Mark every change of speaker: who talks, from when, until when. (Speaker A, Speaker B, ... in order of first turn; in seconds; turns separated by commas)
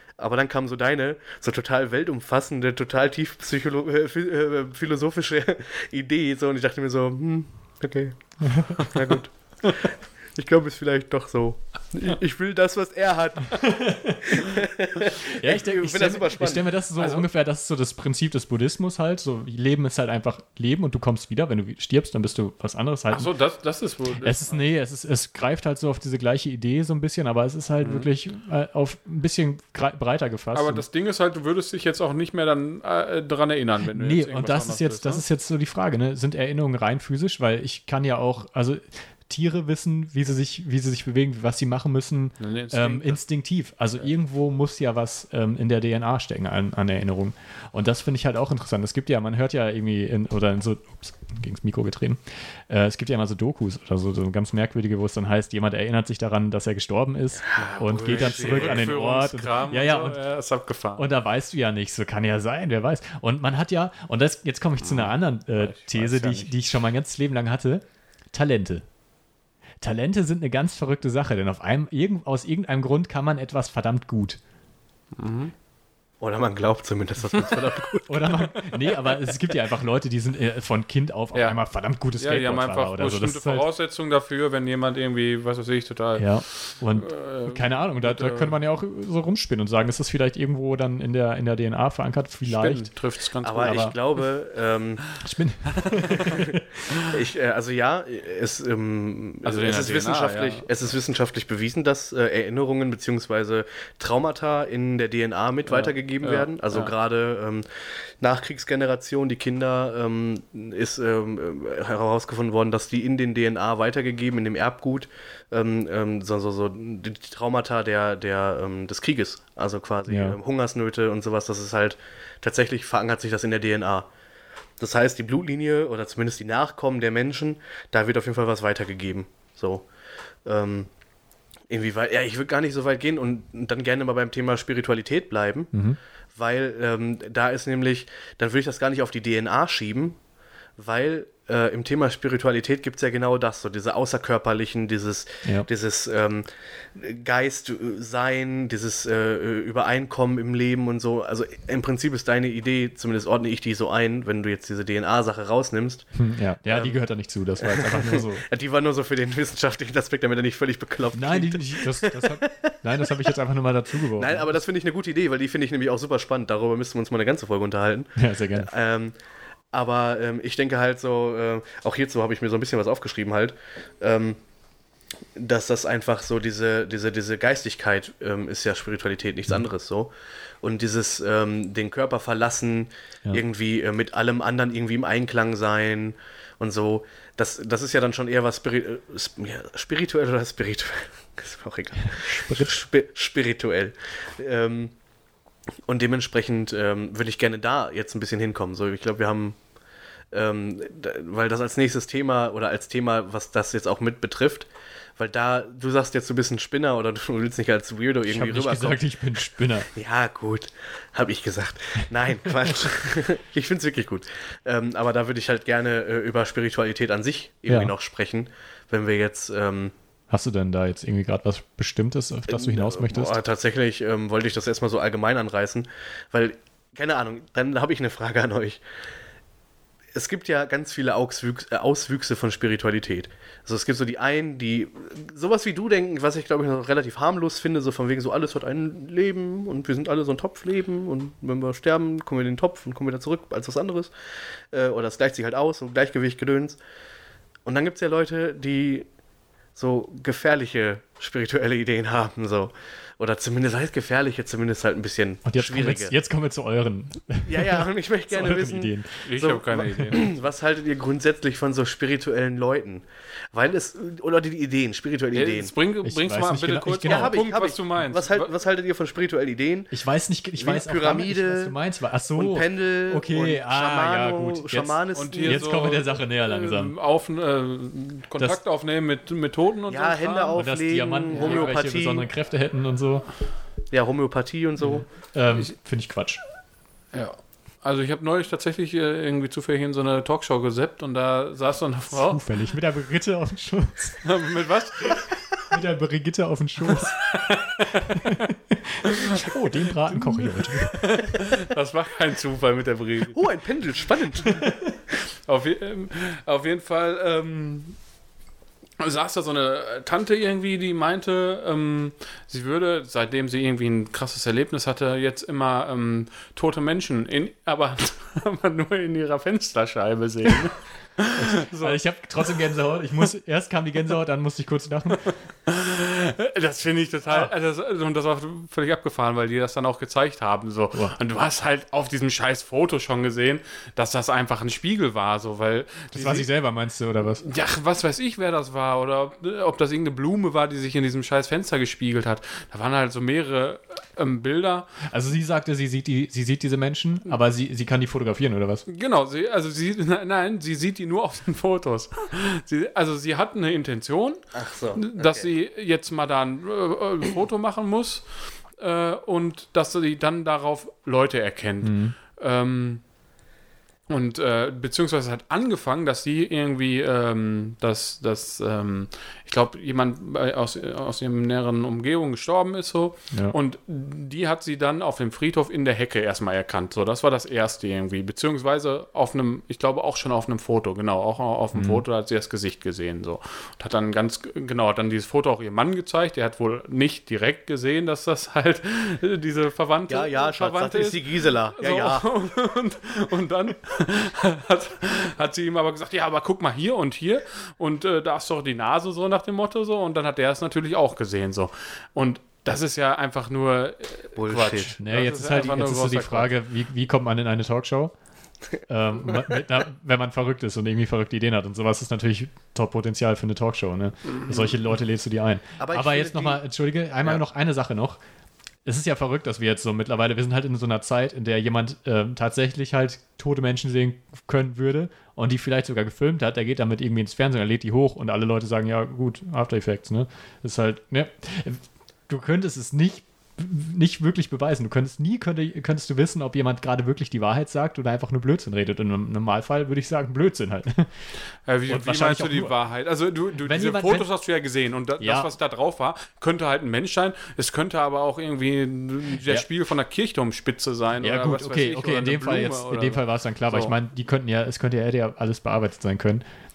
Speaker A: 0.2-16.7, Speaker B: 8.5-8.8, Speaker B: 13.6-14.5, Speaker B: 15.3-23.3, Speaker C: 17.0-17.2, Speaker C: 23.1-24.6, Speaker B: 24.2-30.8, Speaker C: 27.8-28.1, Speaker C: 30.5-35.2, Speaker B: 33.9-60.2, Speaker C: 42.4-43.2, Speaker A: 57.5-58.9, Speaker C: 57.6-61.1, Speaker B: 61.0-68.8, Speaker C: 64.8-66.6, Speaker B: 69.8-74.4, Speaker C: 75.1-75.5, Speaker A: 76.2-78.7, Speaker B: 78.1-83.7, Speaker C: 81.3-81.6, Speaker C: 82.2-88.5, Speaker B: 86.2-92.9, Speaker C: 92.4-94.0, Speaker A: 93.4-95.1, Speaker B: 93.6-93.9, Speaker B: 95.2-96.6, Speaker A: 96.2-124.1, Speaker C: 99.4-100.7, Speaker C: 105.7-106.9, Speaker B: 120.1-120.4, Speaker A: 124.8-129.9, Speaker A: 130.4-130.9, Speaker A: 131.7-135.7, Speaker B: 135.7-136.0, Speaker A: 136.3-140.2, Speaker A: 140.8-156.1, Speaker B: 156.1-158.4, Speaker A: 156.7-157.0, Speaker A: 157.6-163.2, Speaker B: 161.1-164.6, Speaker A: 164.2-169.1, Speaker B: 168.2-168.7, Speaker A: 169.7-174.4, Speaker A: 175.3-180.1, Speaker A: 180.6-194.9, Speaker B: 192.1-192.7, Speaker A: 195.9-199.6, Speaker A: 200.3-219.9, Speaker B: 208.3-209.9, Speaker B: 220.3-223.3, Speaker A: 222.5-228.8, Speaker A: 230.1-244.1, Speaker A: 244.7-246.8, Speaker A: 247.6-249.1, Speaker A: 249.8-256.1, Speaker B: 255.4-259.2, Speaker A: 257.5-265.7, Speaker C: 259.2-260.3, Speaker C: 265.3-268.5, Speaker B: 266.0-267.4, Speaker A: 267.0-269.9, Speaker B: 269.9-276.9, Speaker A: 270.6-271.7, Speaker A: 272.4-275.8, Speaker C: 275.1-280.7, Speaker A: 279.9-282.3, Speaker B: 280.5-283.2, Speaker C: 281.3-281.7, Speaker A: 283.9-285.1, Speaker B: 284.8-286.4, Speaker C: 287.1-292.4, Speaker B: 292.1-294.3, Speaker C: 294.2-295.3, Speaker B: 295.7-297.2, Speaker C: 297.0-298.4, Speaker B: 298.1-301.3, Speaker C: 299.9-303.4, Speaker A: 303.3-304.6, Speaker B: 304.6-304.9, Speaker C: 305.3-308.0, Speaker C: 309.0-322.0, Speaker B: 321.4-325.3, Speaker C: 325.3-336.5, Speaker B: 336.1-337.5, Speaker C: 337.4-344.9, Speaker B: 345.1-348.8, Speaker C: 348.9-354.4, Speaker A: 354.5-355.5, Speaker C: 354.9-363.0, Speaker B: 361.8-362.1, Speaker C: 364.1-406.5, Speaker B: 381.7-382.0, Speaker A: 390.1-392.2, Speaker A: 404.4-404.9, Speaker B: 405.0-408.1, Speaker B: 408.9-418.2, Speaker C: 414.5-414.7, Speaker A: 415.8-416.6, Speaker B: 418.8-441.3, Speaker C: 441.6-453.9, Speaker B: 441.9-442.8, Speaker B: 443.6-444.3, Speaker B: 445.2-445.5, Speaker B: 451.2-456.4